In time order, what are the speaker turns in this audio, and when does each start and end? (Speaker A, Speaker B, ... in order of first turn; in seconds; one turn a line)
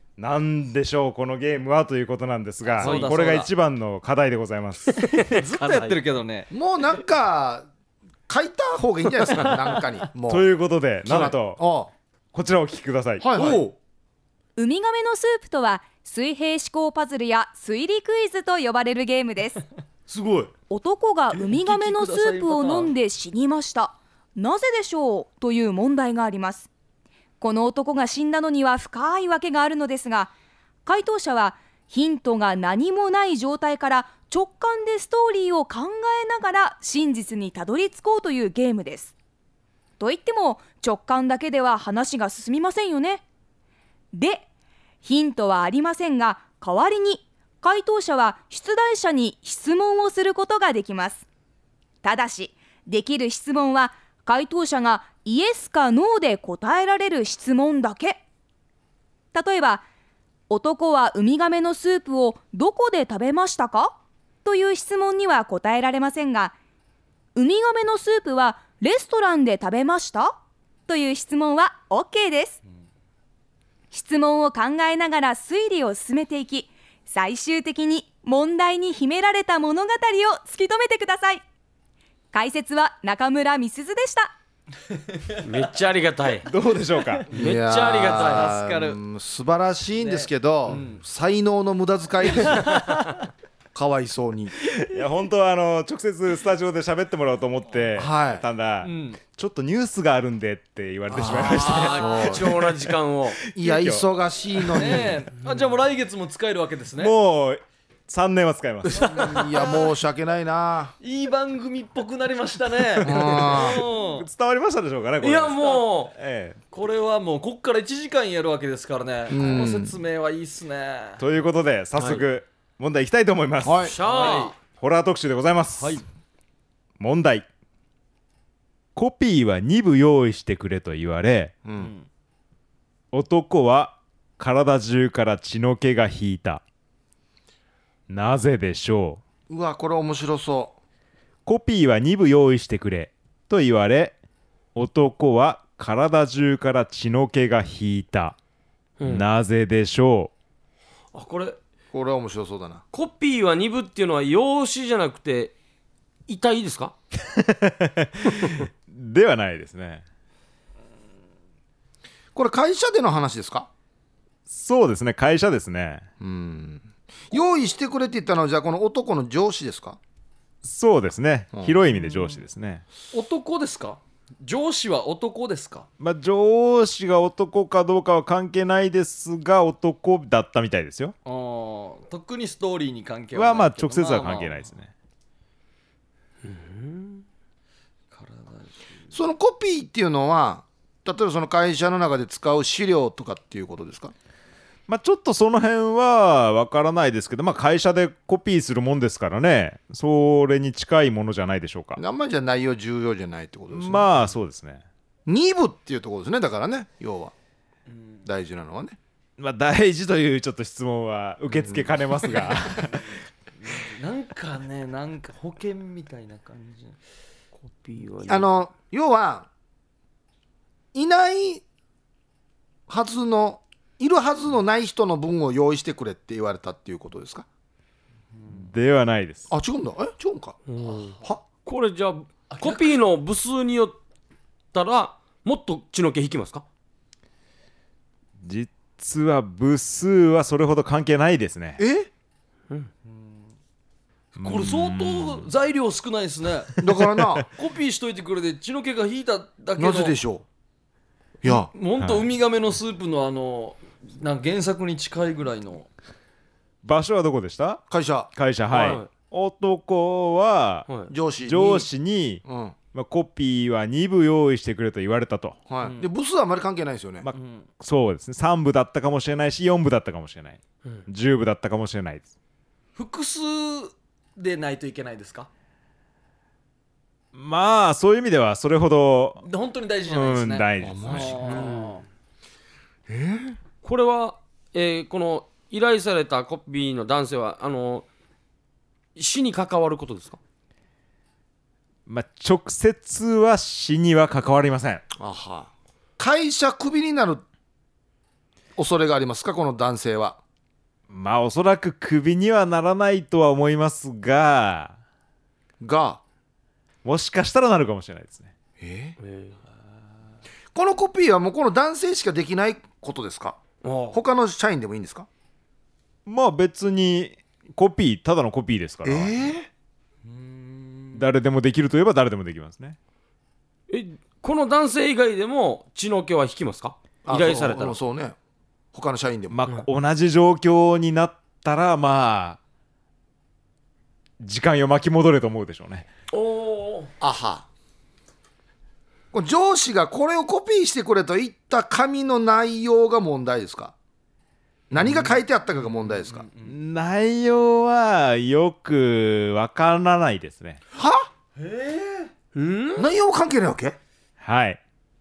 Speaker A: 0.2-5.0
Speaker B: 2.6-3.5
Speaker C: 2.8-3.1
Speaker C: 5.0-6.0
Speaker B: 5.0-6.5
Speaker D: 6.5-7.7
Speaker D: 8.3-10.5
Speaker A: 10.3-11.6
Speaker D: 11.0-11.9
Speaker A: 12.3-13.3
Speaker D: 13.2-13.7
Speaker B: 13.4-13.7
Speaker E: 14.6-19.6
Speaker B: 20.1-20.5
Speaker E: 20.7-26.7
Speaker B: 21.3-22.9
Speaker E: 27.4-30.3
Speaker E: 30.9-39.1
Speaker E: 40.0-43.2
Speaker E: 44.1-44.5
Speaker E: 45.0-51.2
Speaker E: 52.0-58.2
Speaker E: 59.3-59.8
Speaker E: 60.5-66.5
Speaker E: 67.3-70.4
Speaker E: 70.9-72.6
Speaker E: 73.9-81.4
Speaker E: 82.3-84.3
Speaker B: 85.1-85.4
Speaker C: 85.4-86.5
Speaker A: 86.5-87.3
Speaker D: 87.3-92.8
Speaker C: 87.3-88.5
Speaker B: 88.1-89.0
Speaker B: 90.0-91.0
Speaker B: 92.4-93.0
Speaker D: 93.7-94.5
Speaker A: 94.9-102.6
Speaker D: 98.0-98.5
Speaker B: 98.8-99.2
Speaker D: 101.1-102.6
Speaker C: 101.2-103.4
Speaker A: 103.5-104.1
Speaker D: 103.5-105.3
Speaker A: 104.6-105.0
Speaker B: 104.7-107.1
Speaker A: 107.0-109.2
Speaker B: 109.0-109.9
Speaker D: 109.1-111.0
Speaker B: 111.0-114.3
Speaker A: 112.9-115.6
Speaker D: 113.0-113.9
Speaker C: 115.2-116.1
Speaker B: 115.6-115.8
Speaker A: 116.1-116.6
Speaker B: 116.7-121.2
Speaker D: 119.3-120.0
Speaker A: 121.2-123.9
Speaker B: 122.0-122.2
Speaker D: 123.6-124.0
Speaker C: 123.8-124.5
Speaker B: 124.0-124.6
Speaker A: 124.8-126.0
Speaker B: 125.8-126.0
Speaker A: 127.0-127.5
Speaker A: 128.9-131.6
Speaker D: 131.6-131.9
Speaker B: 131.8-132.1
Speaker A: 133.1-136.6
Speaker A: 138.1-139.2
Speaker D: 139.5-140.7
Speaker A: 141.5-144.2
Speaker A: 144.8-148.4
Speaker C: 149.0-149.2
Speaker A: 149.1-150.3
Speaker C: 151.1-151.6
Speaker D: 151.9-152.8
Speaker C: 152.9-155.5
Speaker C: 156.3-156.9
Speaker A: 157.2-160.0
Speaker D: 162.3-163.7
Speaker A: 164.5-166.1
Speaker D: 166.2-170.0
Speaker A: 170.6-172.8
Speaker D: 171.5-171.9
Speaker B: 171.9-172.4
Speaker B: 173.1-175.9
Speaker A: 176.0-181.2
Speaker B: 181.2-184.7
Speaker A: 183.3-184.9
Speaker C: 186.4-187.2
Speaker B: 188.1-188.8
Speaker D: 189.1-194.1
Speaker A: 194.9-202.0
Speaker D: 202.0-204.1
Speaker A: 203.7-204.8
Speaker D: 205.3-207.3
Speaker B: 207.9-208.3
Speaker D: 208.2-209.0
Speaker A: 209.4-213.0
Speaker D: 211.6-212.0
Speaker B: 213.6-217.0
Speaker C: 217.6-218.5
Speaker D: 218.2-219.5
Speaker D: 220.9-221.6
Speaker D: 222.9-227.5
Speaker A: 228.5-229.5
Speaker D: 229.5-230.6
Speaker C: 230.7-234.0
Speaker B: 232.5-233.0
Speaker C: 234.7-236.7
Speaker A: 238.4-241.8
Speaker D: 241.8-242.1
Speaker A: 244.4-245.5
Speaker B: 244.4-247.0
Speaker D: 246.8-247.5
Speaker B: 247.5-250.2
Speaker D: 249.8-250.4
Speaker D: 251.4-251.7
Speaker B: 251.5-255.9
Speaker A: 252.0-252.3
Speaker A: 256.8-257.8
Speaker D: 257.9-258.3
Speaker A: 258.3-260.9
Speaker C: 258.7-259.1
Speaker D: 261.1-261.9
Speaker A: 261.4-265.6
Speaker D: 262.4-262.8
Speaker D: 265.7-267.3
Speaker B: 265.8-266.1
Speaker A: 267.2-272.3
Speaker B: 267.3-267.7
Speaker B: 273.0-275.5
Speaker A: 277.3-279.4
Speaker B: 279.4-282.0
Speaker A: 280.1-281.7
Speaker D: 280.8-281.8
Speaker D: 283.1-283.6
Speaker C: 283.8-288.1
Speaker C: 289.2-290.4
Speaker A: 292.1-295.1
Speaker D: 295.1-297.4
Speaker D: 298.8-300.4
Speaker A: 301.1-304.9
Speaker D: 305.8-306.2
Speaker A: 307.0-308.5
Speaker D: 308.8-309.2
Speaker C: 309.2-309.6
Speaker D: 310.7-313.6
Speaker C: 313.8-314.2
Speaker D: 314.1-315.3
Speaker A: 316.3-319.4
Speaker D: 319.0-319.7
Speaker B: 320.3-321.3
Speaker A: 321.1-323.0
Speaker C: 323.9-328.0
Speaker D: 327.2-328.4
Speaker D: 328.9-329.6
Speaker A: 329.5-332.6
Speaker A: 334.4-336.1
Speaker C: 336.3-337.1
Speaker D: 337.2-337.7
Speaker D: 339.3-343.9
Speaker D: 344.9-346.5
Speaker B: 345.0-346.8
Speaker A: 346.6-350.8
Speaker D: 350.9-351.3
Speaker B: 351.6-352.3
Speaker C: 352.6-353.1
Speaker D: 353.0-354.0
Speaker A: 354.4-354.8